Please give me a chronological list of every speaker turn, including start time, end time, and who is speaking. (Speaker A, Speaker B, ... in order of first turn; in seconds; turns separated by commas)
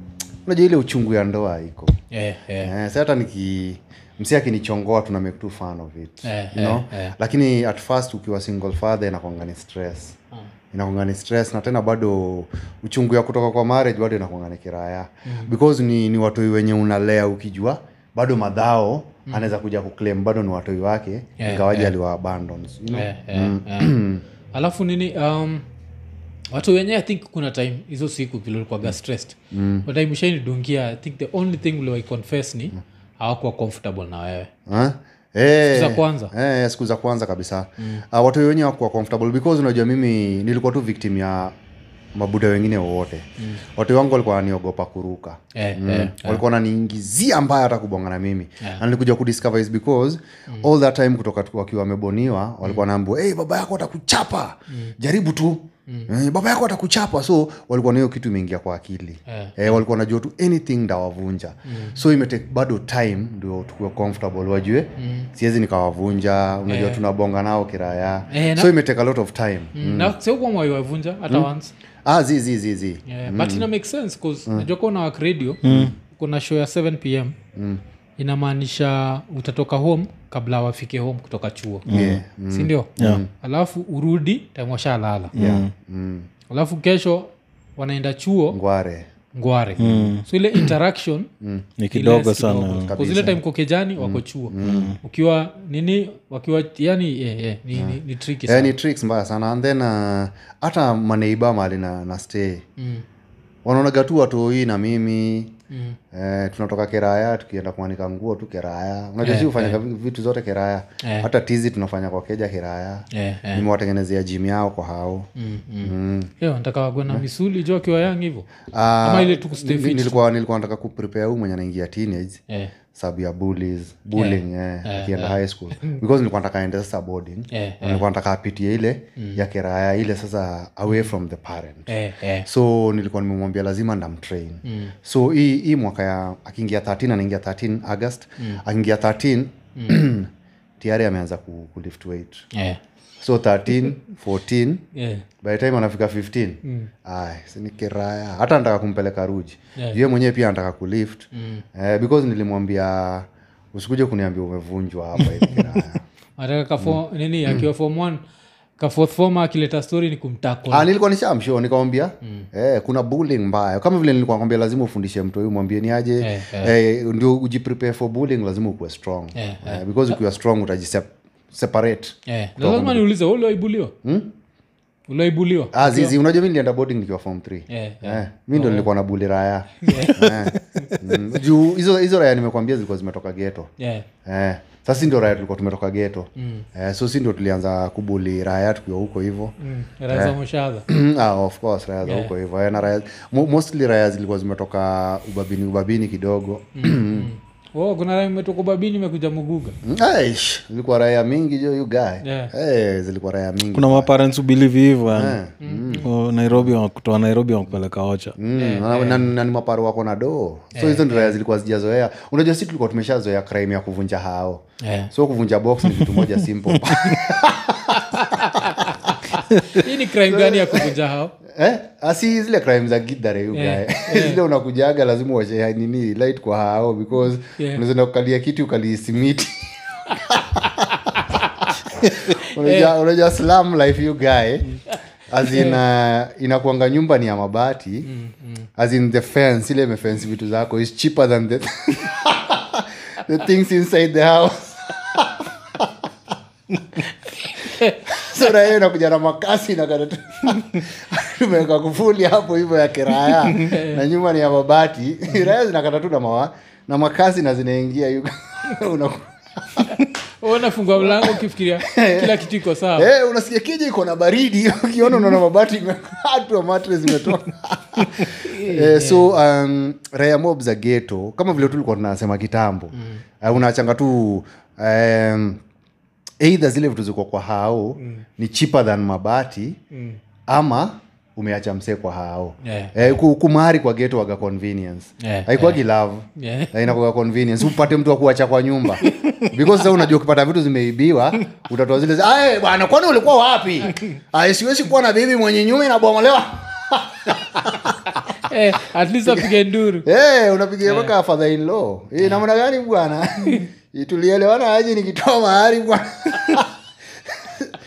Speaker A: 0.5-1.9, Speaker B: 2.1-2.7, Speaker A: 2.6-10.2, Speaker B: 6.2-7.2, Speaker A: 10.7-24.2, Speaker B: 19.3-19.5, Speaker B: 21.4-21.9, Speaker B: 22.9-24.0, Speaker B: 24.5-25.6, Speaker B: 26.5-34.5, Speaker A: 29.5-29.9, Speaker A: 34.7-41.5, Speaker B: 35.7-36.3, Speaker A: 42.1-70.2, Speaker B: 45.5-46.4, Speaker B: 59.3-59.8, Speaker B: 61.7-62.0, Speaker B: 65.0-65.3, Speaker B: 66.7-67.0, Speaker B: 68.3-68.7, Speaker B: 69.8-71.7, Speaker A: 72.0-73.7, Speaker B: 73.1-77.4, Speaker C: 75.6-75.9, Speaker A: 75.7-75.9, Speaker A: 77.5-77.8, Speaker B: 78.2-81.9, Speaker C: 81.9-82.2, Speaker A: 81.9-83.3, Speaker B: 82.5-85.3, Speaker C: 83.0-83.2, Speaker C: 85.3-85.7, Speaker A: 85.4-86.3, Speaker B: 86.5-88.6, Speaker A: 88.5-89.1, Speaker B: 89.3-91.3, Speaker C: 89.8-90.2, Speaker A: 91.4-91.7, Speaker C: 91.8-92.9, Speaker B: 91.9-98.7, Speaker A: 92.8-93.4, Speaker A: 94.0-94.9, Speaker C: 94.6-95.0, Speaker A: 97.8-102.6, Speaker B: 102.8-103.0, Speaker A: 103.7-105.5, Speaker B: 105.7-106.0, Speaker A: 106.1-115.3, Speaker B: 109.2-109.8, Speaker B: 111.0-111.3, Speaker B: 113.1-113.7, Speaker B: 115.4-118.5, Speaker A: 115.8-116.3, Speaker A: 118.7-122.4, Speaker B: 119.0-120.2, Speaker A: 122.9-131.9, Speaker B: 124.2-126.0, Speaker B: 127.5-128.1, Speaker B: 131.9-132.5, Speaker A: 132.4-142.5, Speaker B: 134.7-134.9, Speaker B: 142.5-142.8, Speaker A: 143.2-144.9, Speaker B: 144.9-145.2, Speaker A: 145.4-156.0, Speaker B: 146.6-146.9, Speaker B: 151.3-151.6, Speaker B: 155.5-155.8, Speaker B: 156.4-158.2, Speaker A: 156.8-157.7, Speaker B: 158.8-160.9, Speaker A: 160.7-173.1, Speaker B: 166.2-166.7, Speaker B: 169.3-170.2, Speaker B: 172.3-173.9, Speaker A: 174.0-174.3, Speaker B: 175.1-176.1, Speaker A: 175.7-183.7, Speaker B: 177.7-178.9, Speaker B: 179.8-180.9, Speaker B: 183.8-184.1, Speaker A: 184.2-189.5, Speaker B: 186.4-186.7, Speaker B: 189.6-190.9, Speaker A: 190.1-190.3, Speaker A: 190.9-197.3, Speaker B: 192.1-192.3, Speaker B: 196.8-199.8, Speaker A: 199.8-204.1, Speaker B: 202.2-202.5, Speaker C: 203.7-205.4, Speaker A: 205.1-206.7, Speaker B: 205.6-206.1, Speaker C: 206.0-208.4, Speaker A: 208.4-219.3, Speaker B: 208.5-209.3, Speaker B: 210.7-211.3, Speaker B: 214.8-215.1, Speaker C: 216.1-217.2, Speaker B: 217.9-221.3, Speaker A: 220.2-221.0, Speaker A: 221.5-230.9, Speaker B: 223.5-224.4, Speaker B: 227.6-227.8, Speaker B: 230.7-232.9, Speaker A: 232.0-238.1, Speaker B: 234.9-235.8, Speaker B: 238.1-238.7, Speaker A: 238.8-246.1, Speaker B: 247.3-248.3, Speaker A: 248.1-260.0, Speaker B: 253.6-254.0, Speaker B: 259.8-263.1, Speaker A: 261.0-262.4, Speaker A: 263.0-275.6, Speaker B: 268.2-269.3, Speaker B: 272.9-273.2, Speaker A: 276.4-279.8, Speaker B: 278.0-278.2, Speaker B: 279.9-280.2, Speaker A: 280.5-298.0, Speaker B: 282.6-283.1, Speaker B: 285.2-285.8, Speaker B: 286.4-286.9, Speaker B: 289.0-290.0, Speaker B: 298.4-300.1, Speaker A: 299.2-299.5, Speaker A: 300.1-307.8, Speaker B: 300.9-301.1